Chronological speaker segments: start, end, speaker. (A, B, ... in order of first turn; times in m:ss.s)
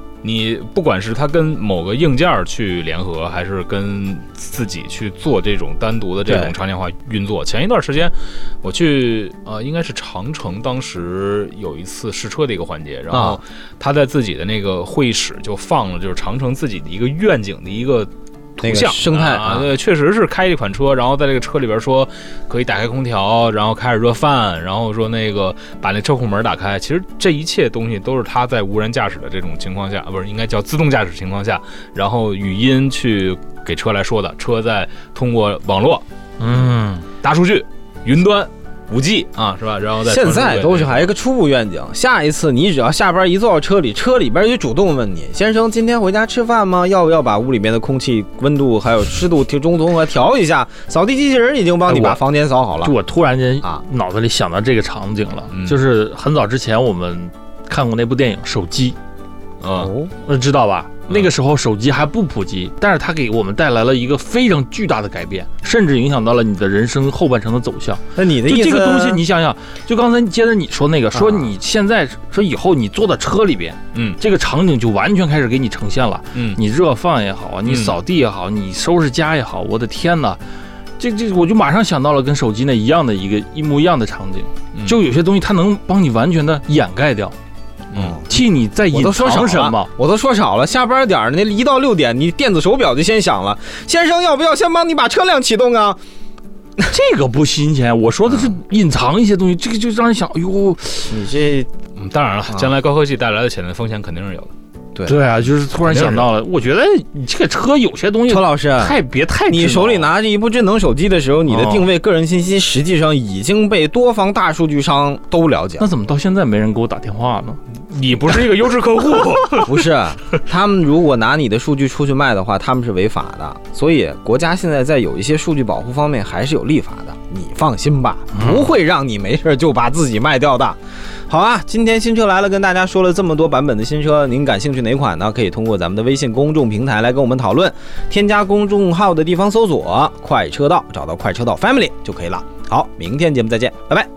0:00.2-0:36.0 A
0:06.2-0:06.5 B
0:13.1-0:13.4 B
0:18.6-0:19.7 B
0:36.4-0:37.1 C
0:37.2-0:41.1 A
0:40.0-0:52.9 B
0:51.9-0:52.2 C
0:52.8-0:59.0 C
0:55.5-0:55.8 A
0:59.6-0:59.9 A
0:59.8-1:00.1 B
1:00.2-1:20.4 C
1:08.2-1:09.2 B
1:11.1-1:11.5 B
1:13.9-1:14.2 A
1:16.3-1:16.6 A
1:17.6-1:17.9 A
1:21.0-1:27.3 C
1:24.7-1:25.0 A
1:27.9-1:28.2 A
1:27.9-1:36.0 B
1:28.2-1:29.9 C
1:36.8-1:41.3 C
1:38.3-1:38.5 B
1:41.1-1:41.7 B
1:42.0-1:44.5 A
1:45.0-1:50.1 C
1:45.8-1:46.3 A
1:48.3-1:55.8 B
1:51.5-1:51.9 C
1:55.8-1:57.6 C
1:57.7-1:59.8 A
1:59.6-2:24.1 B
2:08.3-2:08.7 C